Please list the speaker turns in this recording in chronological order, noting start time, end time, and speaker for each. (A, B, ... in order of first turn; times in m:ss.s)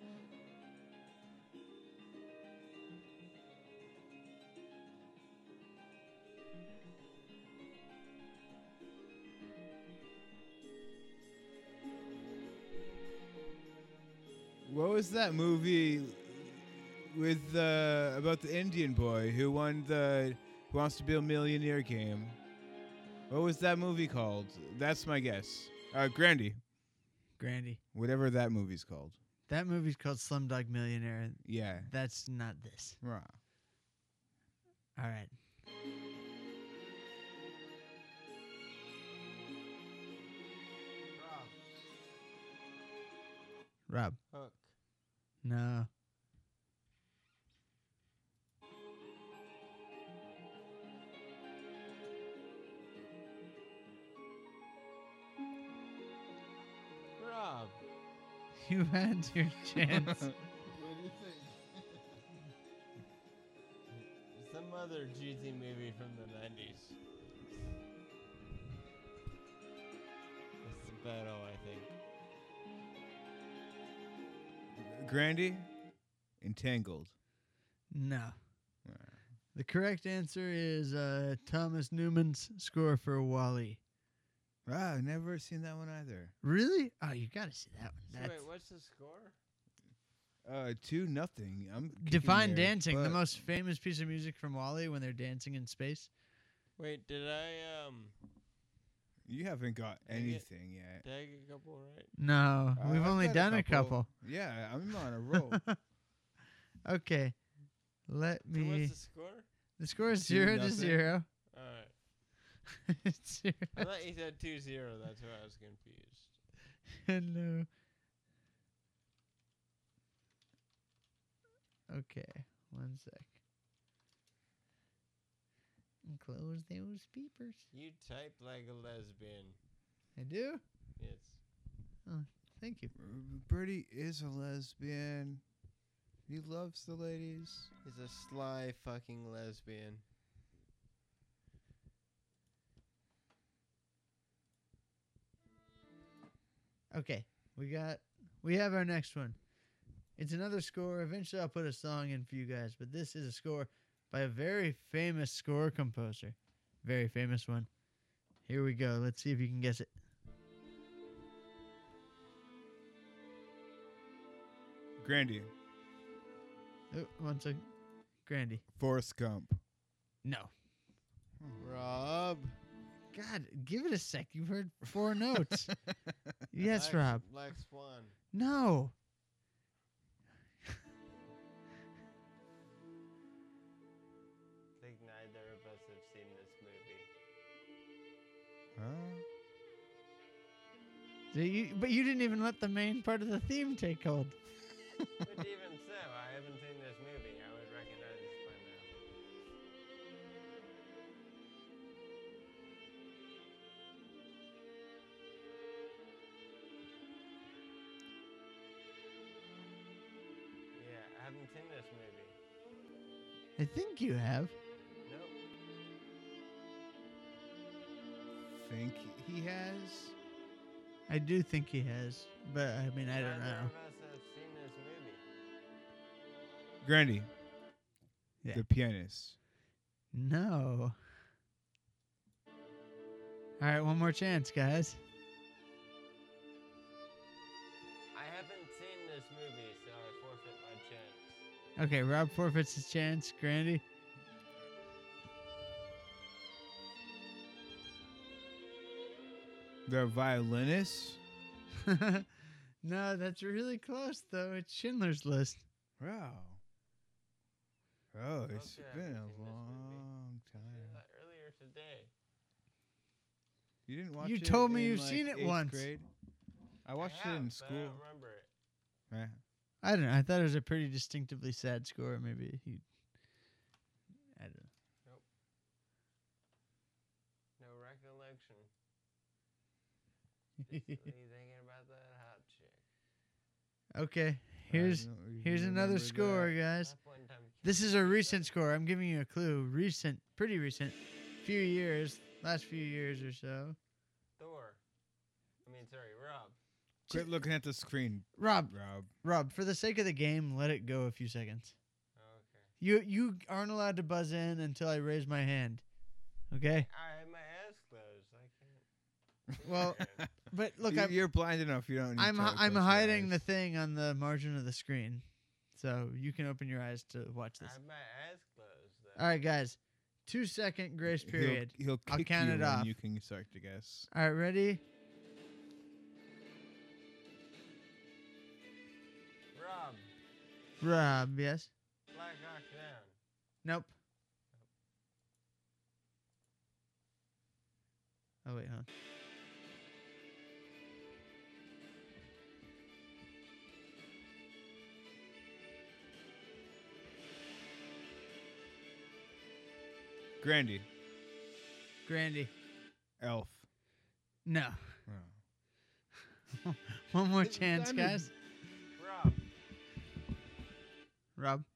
0:14.6-0:22.4 A
0:23.3-0:26.6 A
0:27.4-0:27.8 B
0:27.9-0:29.2 A
0:29.5-0:33.0 B
0:31.4-0:31.9 A
0:33.0-0:33.4 A
0:35.0-0:35.3 B
0:41.2-0:41.6 C
0:43.9-0:44.2 B
0:44.3-0:44.8 C
0:45.4-0:45.9 B
0:57.2-0:57.8 C
0:58.6-1:00.3 B
0:59.9-1:01.7 A
1:03.9-1:07.0 C
1:10.6-1:12.0 C
1:14.8-1:15.7 A
1:16.4-1:17.1 A
1:17.9-1:18.4 B
1:18.9-1:19.2 A
1:19.6-1:23.8 B
1:24.7-1:26.3 A
1:26.4-1:28.4 B
1:28.1-1:29.4 C
1:30.4-1:33.4 A
1:32.0-1:36.1 B
1:36.8-1:38.2 C
1:39.3-1:41.0 A
1:40.0-1:40.5 C
1:41.0-1:42.1 C
1:42.2-1:44.1 B
1:42.8-1:45.6 A
1:45.5-1:45.8 B
1:46.8-1:47.4 B
1:48.1-1:49.0 B
1:48.5-1:49.5 C
1:49.8-1:51.3 B
1:50.2-1:51.0 A
1:51.5-1:51.9 C
1:52.9-1:53.8 B
1:53.8-1:56.4 C
1:57.0-1:57.7 B
2:01.9-2:03.4 B
2:06.0-2:07.6 B
2:07.7-2:09.6 C
2:10.2-2:10.6 B
2:11.0-2:11.4 C
2:12.1-2:12.9 B
2:13.0-2:15.4 A
2:16.3-2:17.7 A
2:17.8-2:20.0 C
2:26.9-2:29.4 B
2:30.2-2:37.7 B
2:38.4-2:39.9 B
2:45.0-2:45.5 A
2:46.9-2:47.6 B
2:48.2-2:48.6 B
2:48.8-2:49.6 A
2:50.2-2:50.5 B
2:51.6-2:52.6 C
2:53.1-2:55.7 B
2:56.5-2:57.2 B
2:56.6-2:58.2 C
2:58.3-2:58.9 B
3:04.8-3:07.1 C
3:08.8-3:09.2 A
3:11.3-3:14.4 B
3:15.2-3:19.0 C
3:30.7-3:32.4 C
3:33.6-3:34.6 B
3:35.0-3:35.4 C
3:38.5-3:40.1 A
3:41.1-3:43.7 B
3:43.1-3:45.2 C
3:46.8-3:47.3 A
3:48.5-3:49.4 A
3:50.1-3:51.0 B
3:53.6-3:55.0 B
3:58.1-4:01.4 C
4:01.8-4:03.8 B
4:09.9-4:11.2 A
4:11.8-4:12.3 B
4:12.8-4:15.6 B
4:16.0-4:16.6 A
4:18.1-4:21.0 A
4:18.5-4:22.1 C
4:23.9-4:26.1 A
4:24.2-4:25.9 B
4:26.8-4:28.0 A
4:27.0-4:28.5 C
4:29.1-4:29.4 A
4:29.8-4:32.8 B
4:34.4-4:34.7 B
4:37.6-4:38.7 C
4:40.6-4:41.0 B
4:40.6-4:42.8 C
4:43.9-4:46.9 B
4:44.7-4:46.6 A
4:46.8-4:48.5 C
4:47.6-4:53.8 B
4:54.4-4:54.8 C
4:55.6-4:56.6 C
4:57.1-4:59.1 A
4:58.4-5:01.7 B
5:02.2-5:02.7 C
5:02.8-5:05.8 B
5:06.5-5:06.9 B
5:06.7-5:08.9 C
5:09.5-5:10.3 C
5:09.7-5:11.2 B
5:10.9-5:13.4 A
5:12.2-5:17.8 B
5:17.6-5:19.4 C
5:19.2-5:22.9 B
5:21.2-5:24.1 A
5:24.1-5:24.8 B
5:29.5-5:30.1 C
5:30.8-5:31.7 B
5:32.1-5:33.2 C
5:33.6-5:33.9 B
5:38.4-5:38.9 B
5:50.4-5:50.9 A
5:52.0-5:52.5 B
5:53.2-5:53.7 A
5:54.5-5:55.0 B
5:55.1-5:55.4 A
5:56.5-5:58.3 B
5:57.4-5:58.3 A
5:59.0-5:59.4 C
6:01.4-6:01.7 B